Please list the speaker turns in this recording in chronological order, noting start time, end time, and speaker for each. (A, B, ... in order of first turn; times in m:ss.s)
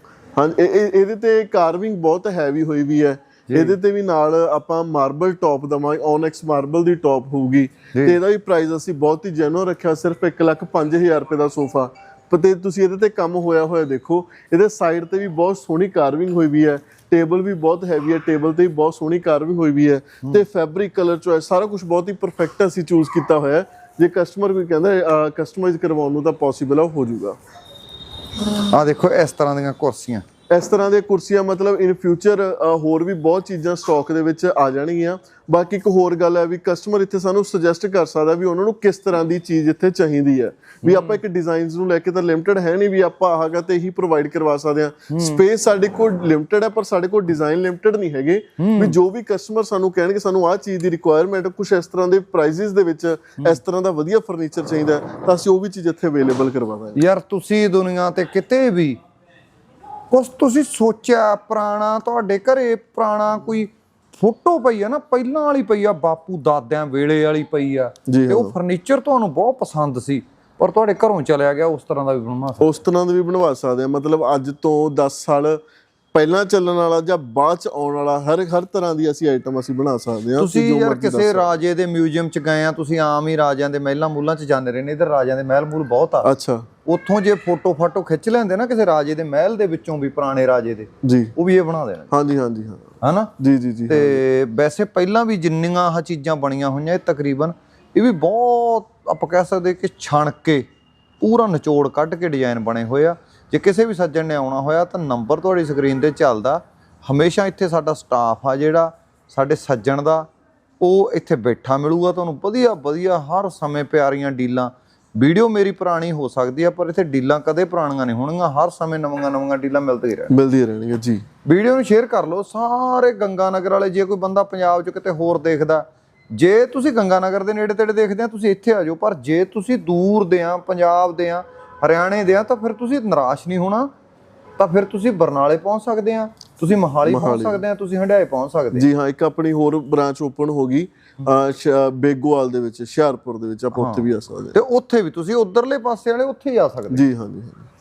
0:00.4-0:27.4 A
0:03.5-0:03.7 B
0:28.5-0:30.2 B
0:30.5-0:57.0 A
0:40.8-0:41.2 B
0:45.1-0:45.4 B
0:48.6-0:48.9 B
0:57.0-0:59.0 B
1:00.1-1:12.7 B
1:08.1-1:08.6 A
1:12.6-1:15.6 A
1:16.1-1:21.5 A
1:20.4-1:26.3 B
1:26.2-1:26.7 A
1:26.9-1:32.1 B
1:31.0-1:31.3 A
1:32.1-1:34.2 A
1:33.0-1:33.3 B
1:33.9-1:40.6 B
1:41.2-1:50.3 B
1:50.8-2:00.4 B
2:00.3-2:01.2 A
2:01.4-2:13.9 B
2:14.6-2:18.9 B
2:17.0-2:17.6 A
2:18.7-2:24.6 A
2:23.8-2:27.0 B
2:26.9-2:27.7 A